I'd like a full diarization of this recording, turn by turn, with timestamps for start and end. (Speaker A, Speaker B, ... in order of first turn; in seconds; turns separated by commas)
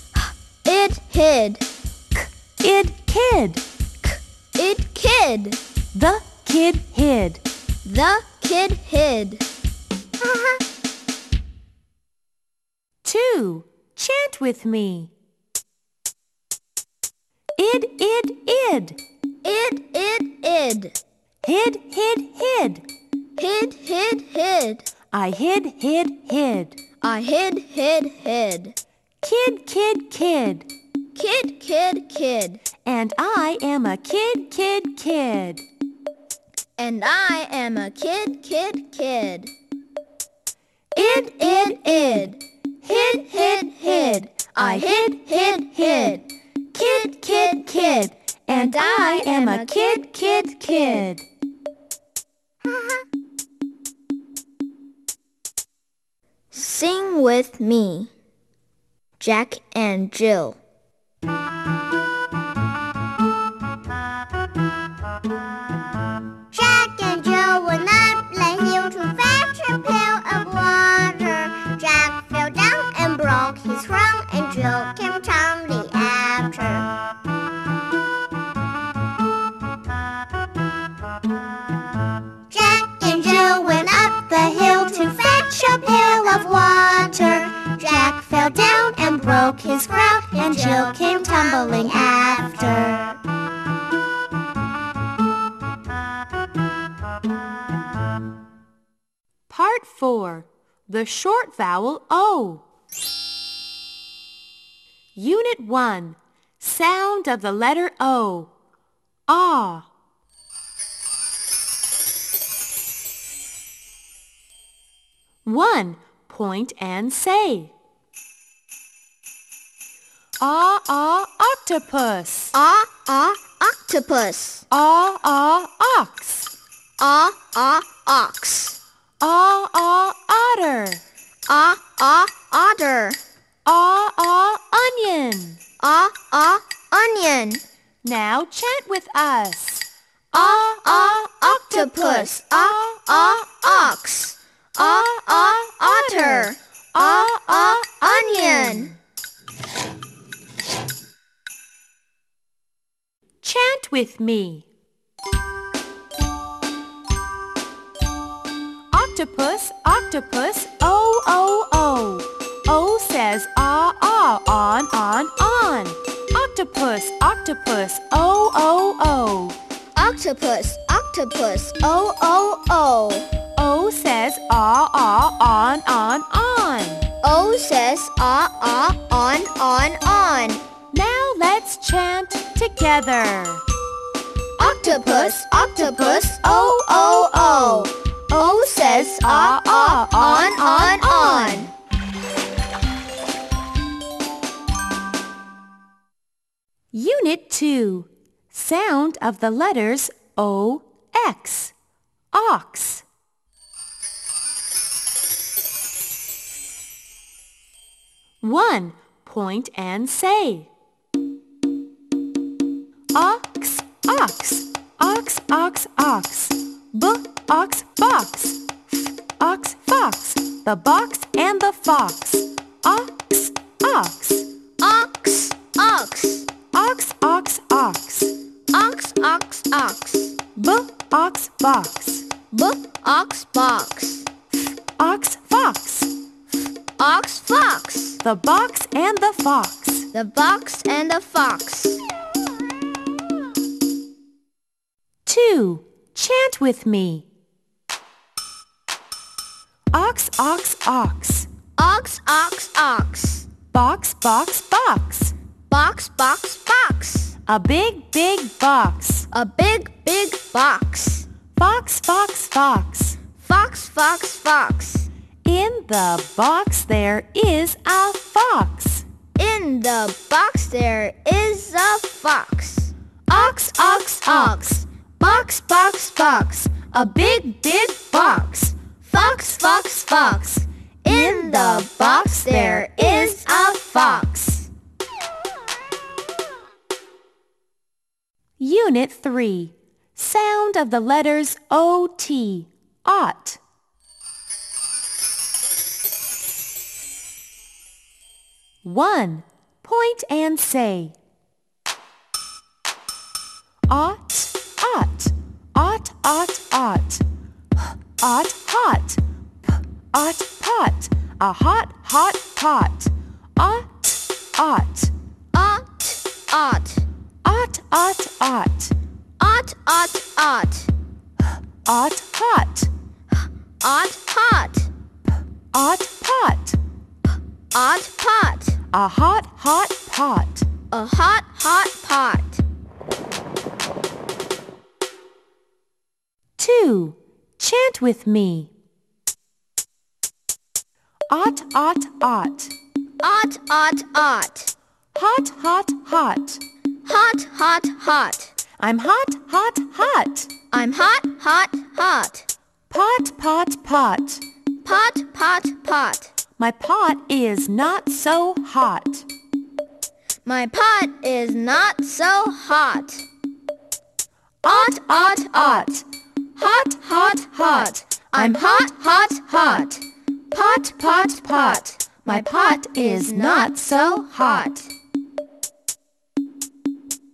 Speaker A: 0.6-1.6, Speaker B: 2.6-3.6, Speaker A: 4.6-5.6, Speaker B: 5.9-7.4, Speaker A: 7.8-9.4, Speaker B: 13.0-15.1, Speaker B: 17.6-19.0, Speaker A: 19.4-21.0, Speaker B: 21.4-22.8, Speaker A: 23.4-24.9, Speaker B: 25.1-26.8, Speaker A: 27.0-28.8, Speaker B: 29.2-30.7, Speaker A: 31.1-32.6, Speaker B: 32.8-35.6, Speaker A: 36.8-39.5, Speaker A: 41.0-51.0, Speaker B: 44.6-45.1, Speaker B: 47.5-48.0, Speaker B: 48.5-51.2, Speaker A: 56.5-58.1, Speaker A: 59.2-60.6, Speaker C: 66.5-76.9, Speaker C: 82.5-93.2, Speaker B: 90.9-91.7, Speaker B: 99.5-102.6, Speaker B: 105.2-108.5, Speaker B: 109.3-109.9, Speaker B: 115.5-117.7, Speaker B: 120.4-122.5, Speaker A: 122.5-124.7, Speaker B: 124.7-126.5, Speaker A: 127.0-128.8, Speaker B: 129.2-131.0, Speaker A: 131.5-133.2, Speaker B: 133.7-135.6, Speaker A: 135.8-137.6, Speaker B: 138.0-143.5, Speaker A: 140.3-149.0, Speaker B: 145.8-148.9, Speaker B: 153.4-154.7, Speaker B: 158.9-169.6, Speaker A: 170.0-173.3, Speaker B: 173.6-177.1, Speaker A: 177.2-180.6, Speaker B: 180.9-183.6, Speaker A: 184.6-191.7, Speaker B: 184.7-187.7, Speaker B: 189.1-191.7, Speaker B: 196.9-201.7, Speaker B: 202.3-203.1, Speaker B: 208.4-210.7, Speaker B: 213.1-224.5, Speaker A: 224.8-226.5, Speaker B: 226.7-228.3, Speaker A: 228.7-230.4, Speaker B: 230.6-232.3, Speaker A: 232.5-234.3, Speaker B: 235.0-236.1, Speaker A: 237.0-238.2, Speaker B: 238.2-240.1, Speaker A: 240.1-242.0, Speaker B: 245.3-247.3, Speaker B: 249.9-251.5, Speaker A: 251.8-253.5, Speaker B: 253.7-255.3, Speaker A: 255.7-257.4, Speaker B: 257.5-259.3, Speaker A: 259.3-261.3, Speaker B: 261.6-263.2, Speaker A: 263.4-265.1, Speaker B: 265.4-269.1, Speaker A: 269.4-284.7, Speaker B: 281.1-283.0, Speaker B: 288.6-293.6, Speaker B: 298.8-301.1, Speaker B: 303.9-307.2, Speaker B: 307.8-315.1, Speaker A: 315.5-317.1, Speaker B: 317.4-318.9, Speaker A: 319.4-320.9, Speaker B: 321.9-322.9, Speaker A: 323.8-324.9, Speaker B: 325.7-326.8, Speaker A: 327.7-328.8, Speaker B: 328.9-330.7, Speaker A: 330.9-332.6, Speaker B: 336.6-338.7, Speaker B: 341.3-342.7, Speaker A: 343.2-344.7, Speaker B: 345.1-346.6, Speaker A: 347.1-348.5, Speaker B: 348.8-350.5, Speaker A: 350.7-352.5, Speaker B: 352.9-354.4, Speaker A: 354.9-356.3, Speaker B: 356.6-359.3, Speaker A: 360.4-363.3, Speaker A: 364.6-366.0, Speaker A: 366.6-374.9, Speaker B: 372.3-374.7